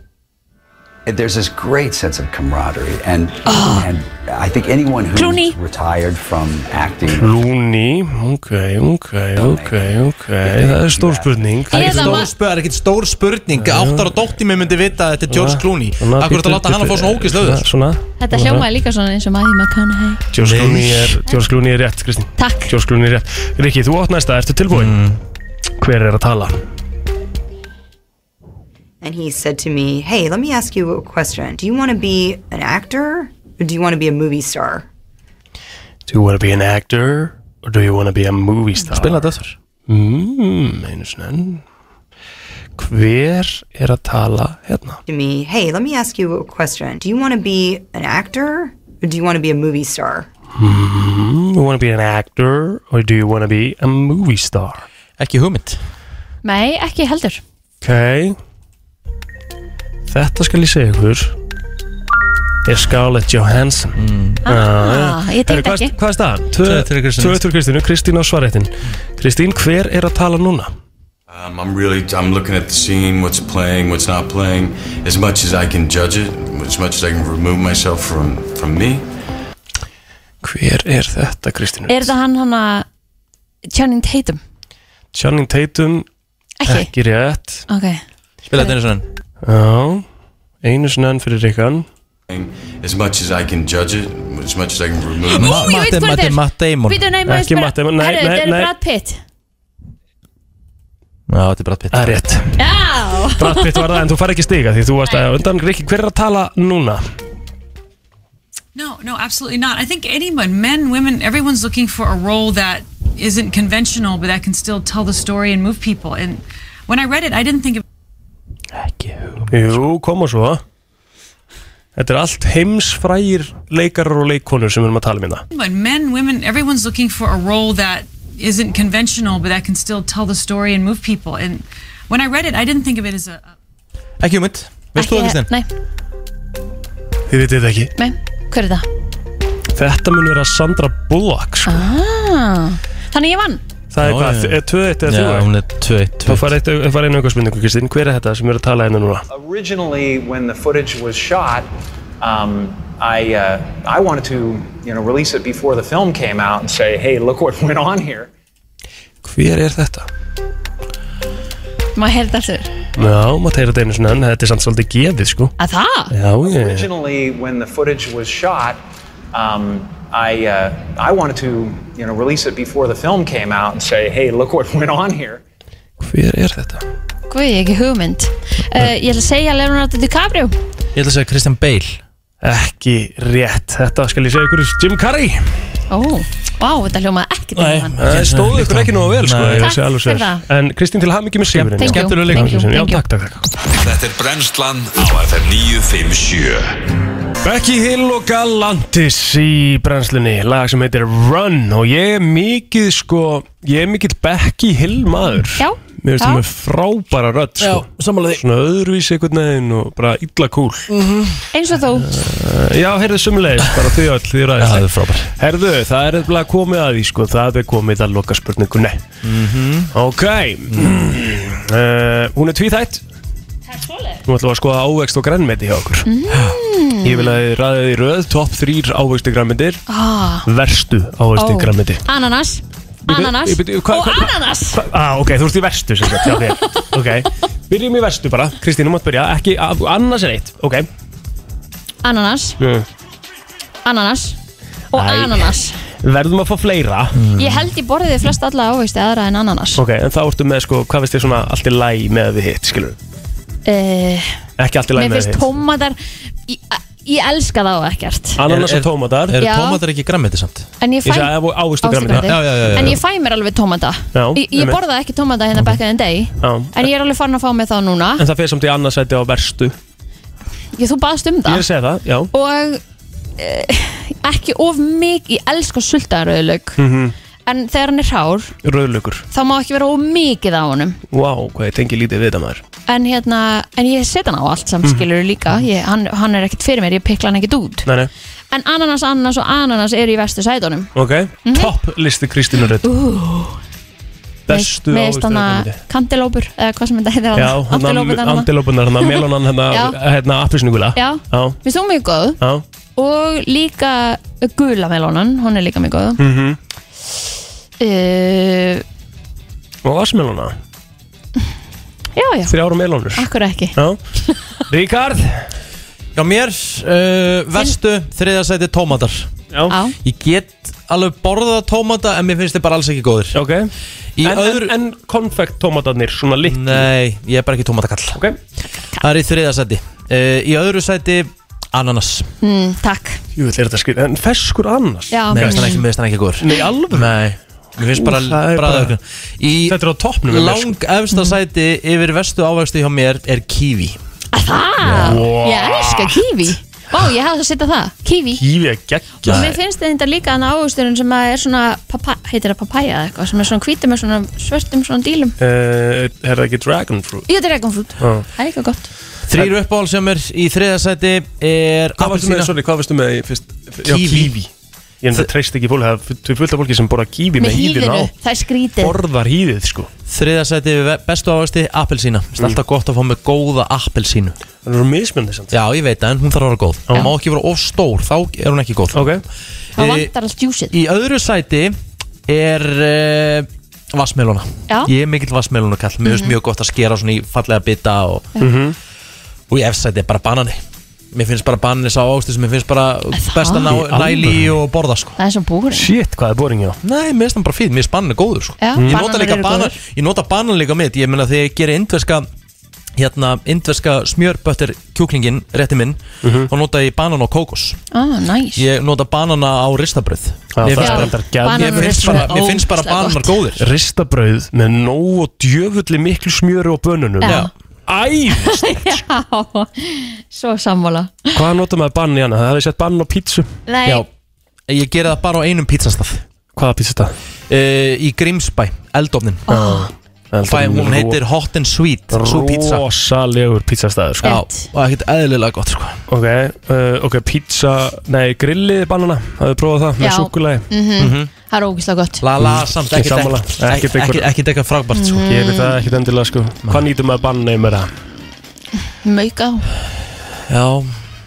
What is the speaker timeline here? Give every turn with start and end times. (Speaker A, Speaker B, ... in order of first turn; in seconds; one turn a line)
Speaker A: 1.1-7.3
Speaker B: 3.5-3.9
Speaker B: 5.1-5.5
Speaker C: 7.1-12.3
Speaker A: 9.3-11.3
Speaker B: 11.7-12.3
Speaker D: 11.7-17.7
Speaker C: 13.5-14.2
Speaker C: 15.3-18.7
Speaker B: 18.2-20.2
Speaker C: 20.3-24.9
Speaker D: 20.4-21.2
Speaker B: 22.4-22.7
Speaker D: 24.7-25.2
Speaker C: 25.8-26.6
Speaker E: 29.0-34.9
Speaker C: 36.1-39.2
Speaker D: 38.9-39.5
Speaker C: 39.9-41.6
Speaker C: 42.8-45.0
Speaker E: 45.1-50.3
Speaker C: 50.6-54.9
Speaker D: 55.2-55.8
Speaker B: 56.4-57.4
Speaker C: 57.8-58.4
Speaker C: 60.1-61.3
Speaker C: 62.6-70.7
Speaker D: 64.0-64.4
Speaker B: 64.5-65.9
Speaker D: 66.6-67.4
Speaker F: 71.3-79.0
Speaker C: 80.4-82.1
Speaker B: 81.9-82.8
Speaker B: 83.7-84.4
Speaker C: 85.1-86.0
Speaker B: 86.6-86.9
Speaker C: 86.7-87.7
Speaker B: 87.7-88.0
Speaker D: 88.5-89.0
Speaker C: 89.4-90.0
Speaker C: 90.6-91.8
Speaker F: 92.3-95.8
Speaker B: 95.2-99.2
Speaker D: 95.3-97.0
Speaker C: 97.3-98.7
Speaker D: 101.3-102.2
Speaker C: 101.9-102.6
Speaker B: 102.6-103.8
Speaker C: 103.3-107.0
Speaker G: 108.7-117.8
Speaker D: 118.7-119.8
Speaker C: 119.5-120.6
Speaker C: 122.0-125.4
Speaker G: 125.5-133.5
Speaker D: 134.2-135.5
Speaker B: 134.9-135.7
Speaker C: 137.3-137.9
Speaker B: 138.0-138.9
Speaker C: 139.7-141.9
Speaker B: 141.7-143.6
Speaker C: 143.9-145.5
Speaker D: 144.0-146.4
Speaker C: 146.2-149.2
Speaker H: 149.3-151.7
Speaker H: 152.2-158.3
Speaker C: 159.2-160.1
Speaker B: 161.9-162.7
Speaker C: 162.9-165.5
Speaker B: 165.6-166.1
Speaker C: 166.1-166.9
Speaker H: 166.4-168.8
Speaker H: 169.3-175.4
Speaker C: 176.0-176.8
Speaker B: 177.3-180.5
Speaker D: 180.9-182.0
Speaker C: 182.4-185.6
Speaker B: 185.9-188.0
Speaker D: 187.6-189.7
Speaker C: 188.0-193.5
Speaker B: 189.6-190.4
Speaker D: 191.5-192.6
Speaker B: 191.8-193.0
Speaker I: 193.7-196.8
Speaker C: 197.4-210.9
Speaker B: 205.6-206.4
Speaker D: 207.6-208.4
Speaker D: 210.9-211.4
Speaker B: 211.5-212.2
Speaker C: 212.0-214.8
Speaker D: 214.6-215.3
Speaker C: 215.4-219.0
Speaker D: 219.2-219.9
Speaker C: 219.9-223.0
Speaker D: 220.7-221.1
Speaker B: 223.8-224.2
Speaker C: 224.2-226.1
Speaker B: 226.1-227.4
Speaker C: 227.0-229.8
Speaker B: 229.9-230.5
Speaker C: 230.4-232.0
Speaker B: 231.3-234.8
Speaker C: 233.1-240.9
Speaker B: 242.0-242.6
Speaker C: 242.6-242.8
Speaker B: 243.8-244.4
Speaker B: 244.9-245.8
Speaker C: 244.9-247.2
Speaker D: 247.1-247.7
Speaker B: 247.3-249.8
Speaker C: 249.8-253.0
Speaker B: 253.7-254.4
Speaker C: 254.6-255.5
Speaker B: 254.9-258.4
Speaker C: 258.4-259.4
Speaker D: 258.5-260.7
Speaker B: 259.4-259.8
Speaker B: 260.8-268.2
Speaker C: 261.0-262.8
Speaker D: 262.1-263.0
Speaker C: 264.1-264.8
Speaker C: 266.4-266.9
Speaker C: 268.2-269.7
Speaker B: 270.8-271.6
Speaker C: 271.4-272.3
Speaker B: 272.3-272.8
Speaker B: 273.4-276.8
Speaker C: 276.8-277.1
Speaker B: 277.4-278.5
Speaker C: 278.6-279.2
Speaker B: 279.3-281.0
Speaker C: 281.1-282.6
Speaker B: 282.9-287.9
Speaker C: 287.9-288.1
Speaker B: 288.5-290.9
Speaker C: 290.9-292.9
Speaker B: 291.4-291.7
Speaker B: 292.8-293.6
Speaker C: 294.5-295.8
Speaker B: 294.5-298.5
Speaker C: 297.3-301.6
Speaker B: 299.7-299.9
Speaker B: 300.9-302.4
Speaker B: 303.0-306.2
Speaker C: 306.2-306.6
Speaker B: 307.8-308.8
Speaker C: 309.8-310.5
Speaker B: 312.1-312.5
Speaker C: 312.5-314.0
Speaker B: 313.1-314.4
Speaker C: 314.7-315.4
Speaker D: 316.1-319.3
Speaker B: 319.7-319.9
Speaker D: 320.0-323.4
Speaker C: 323.3-326.9
Speaker D: 324.2-324.7
Speaker D: 326.4-328.2
Speaker D: 329.0-332.3
Speaker B: 332.4-333.2
Speaker C: 333.4-335.7
Speaker B: 335.1-335.8
Speaker D: 335.3-344.0
Speaker C: 336.4-337.1
Speaker C: 337.9-338.9
Speaker C: 339.7-340.8
Speaker B: 344.3-348.4
Speaker C: 344.9-346.3
Speaker C: 348.3-349.6
Speaker B: 349.2-355.4
Speaker C: 355.4-357.2
Speaker B: 357.3-358.9
Speaker C: 358.0-358.2
Speaker D: 359.3-362.5
Speaker C: 362.0-364.5
Speaker D: 363.8-364.3
Speaker C: 365.0-368.1
Speaker B: 367.4-369.0
Speaker C: 368.8-369.9
Speaker D: 370.1-374.4
Speaker C: 374.6-375.5
Speaker D: 375.5-379.2
Speaker C: 378.9-379.2
Speaker B: 379.8-380.7
Speaker D: 379.8-380.1
Speaker D: 380.7-388.3
Speaker B: 386.0-386.3
Speaker C: 388.4-388.8
Speaker D: 389.5-390.6
Speaker D: 391.1-395.1
Speaker B: 393.1-393.7
Speaker C: 393.7-394.5
Speaker B: 395.2-395.9
Speaker C: 395.7-396.8
Speaker D: 396.8-402.3
Speaker B: 398.6-399.8
Speaker D: 403.0-407.8
Speaker C: 406.2-406.5
Speaker B: 407.9-408.6
Speaker D: 408.6-413.7
Speaker C: 410.6-412.3
Speaker B: 410.8-413.4
Speaker C: 413.6-419.0
Speaker B: 417.2-417.5
Speaker D: 417.2-417.5
Speaker B: 418.4-421.3
Speaker C: 421.3-423.5
Speaker B: 423.7-424.0
Speaker D: 424.7-426.2
Speaker C: 426.6-427.1
Speaker D: 427.5-429.5
Speaker B: 429.5-429.9
Speaker C: 429.5-431.2
Speaker D: 430.4-432.8
Speaker C: 432.1-434.3
Speaker B: 434.2-434.6
Speaker D: 434.2-436.0
Speaker C: 436.1-440.7
Speaker B: 440.0-442.2
Speaker D: 441.0-441.3
Speaker D: 442.2-445.3
Speaker C: 442.4-444.3
Speaker B: 444.9-445.8
Speaker C: 445.3-447.9
Speaker B: 449.0-449.7
Speaker D: 450.5-451.0